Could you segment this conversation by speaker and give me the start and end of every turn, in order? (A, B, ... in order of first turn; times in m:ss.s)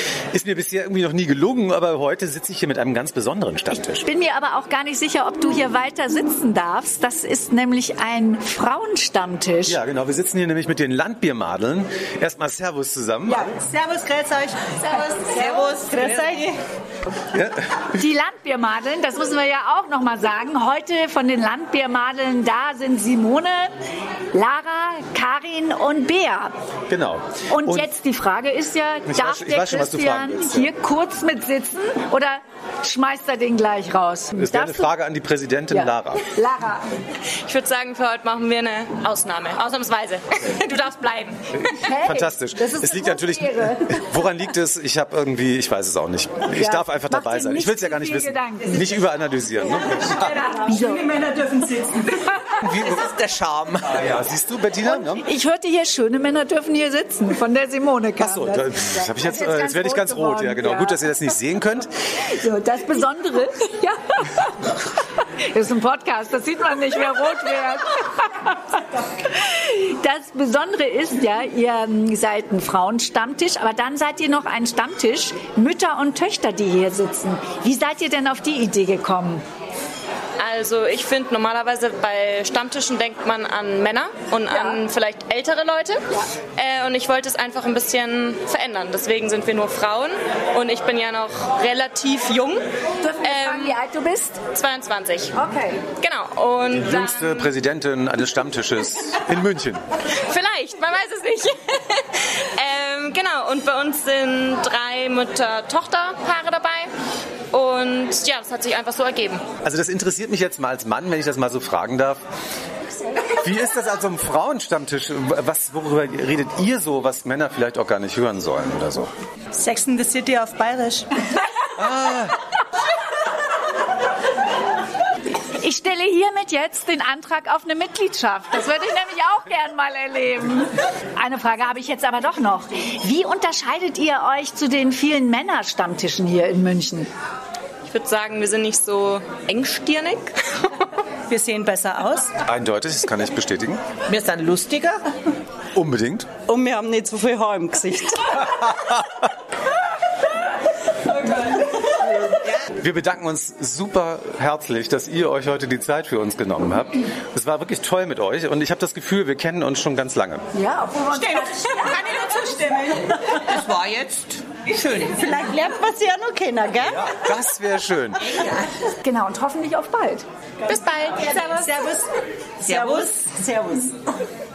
0:00.3-0:04.0 A
0:03.7-0:09.8 B
0:09.6-0:13.5 A
0:13.3-0:16.6 C
0:17.3-0:17.6 A
0:18.0-0:23.7 B
0:24.3-0:26.5 B
0:26.9-0:27.9 A
0:27.5-0:34.9 B
0:29.1-0:30.7 A
0:34.3-0:36.3 A
0:35.7-0:36.8 B
0:37.4-0:41.4 D
0:41.6-0:50.4 A
0:41.8-0:44.0 B
0:46.5-0:48.8 B
0:50.2-0:51.0 B
0:50.5-0:52.1 C
0:52.6-0:55.2 A
0:54.8-1:01.1 B
0:58.2-1:01.9 A
1:02.2-1:04.6 B
1:05.4-1:19.4 B
1:20.4-1:26.0 D
1:24.5-1:24.8 B
1:26.6-1:32.6 D
1:33.0-1:34.4 B
1:33.2-1:33.7 D
1:34.5-1:35.3 D
1:35.3-1:35.8 B
1:36.0-1:37.5 D
1:36.7-1:39.8 A
1:40.2-1:46.9 D
1:47.5-1:49.4 D
1:49.6-1:52.2 A
1:53.3-1:59.1 A
1:59.5-2:01.1 C
2:01.8-2:02.4 A
2:05.6-2:17.1 B
2:17.8-2:20.4 D
2:21.3-2:22.3 C
2:22.4-2:23.8 A
2:24.1-2:25.0 C
2:25.7-2:26.3 A
2:26.5-2:28.1 C
2:32.7-2:40.4 A
2:40.5-2:42.1 B
2:41.1-2:47.1 C
2:46.9-2:48.2 A
2:49.0-2:50.2 B
2:50.7-2:52.0 C
2:52.6-2:53.9 C